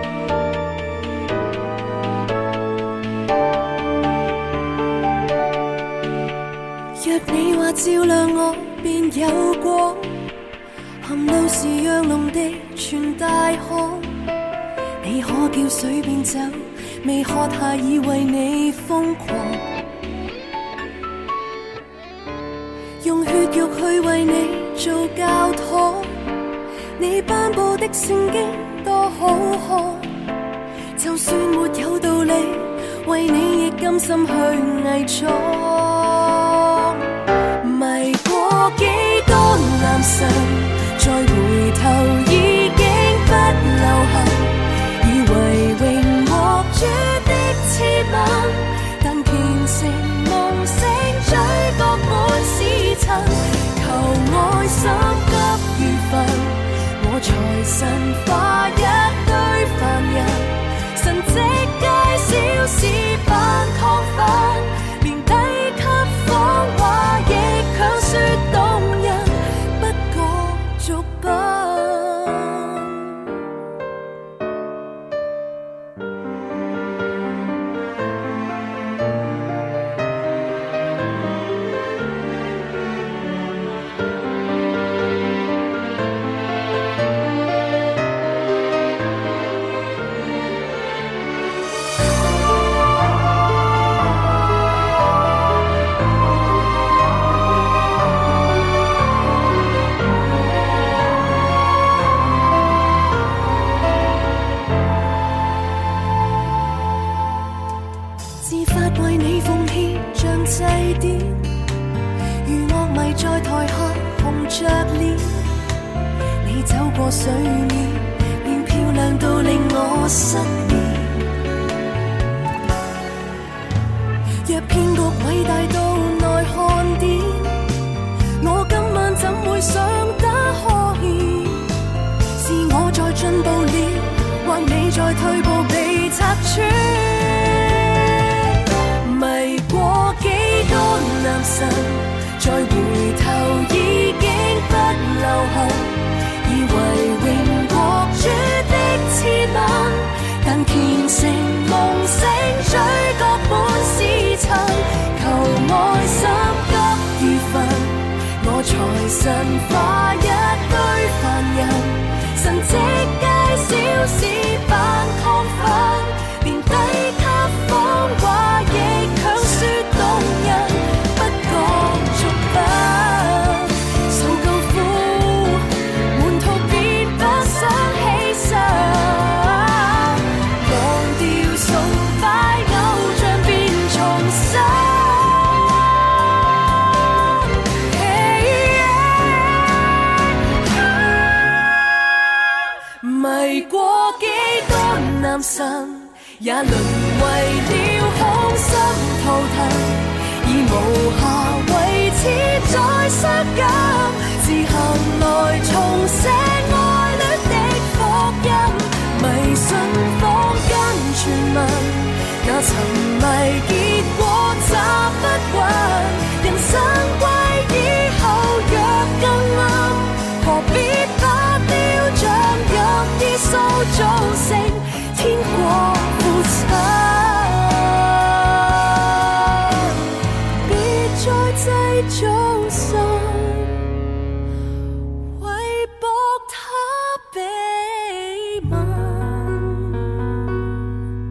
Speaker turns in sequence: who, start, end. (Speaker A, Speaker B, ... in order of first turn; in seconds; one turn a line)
Speaker A: 7.0-10.3
Speaker A: 11.0-14.1
Speaker A: 15.0-19.7
Speaker A: 23.0-26.3
Speaker A: 27.0-30.1
Speaker A: 31.0-36.9
Speaker A: 37.6-73.3
Speaker A: 108.4-111.5
Speaker A: 112.4-115.4
Speaker A: 116.4-121.4
Speaker A: 124.4-127.7
Speaker A: 128.4-131.7
Speaker A: 132.3-138.4
Speaker A: 139.0-186.7
Speaker A: 187.9-230.0
Speaker A: 230.6-233.8
Speaker A: 235.3-240.3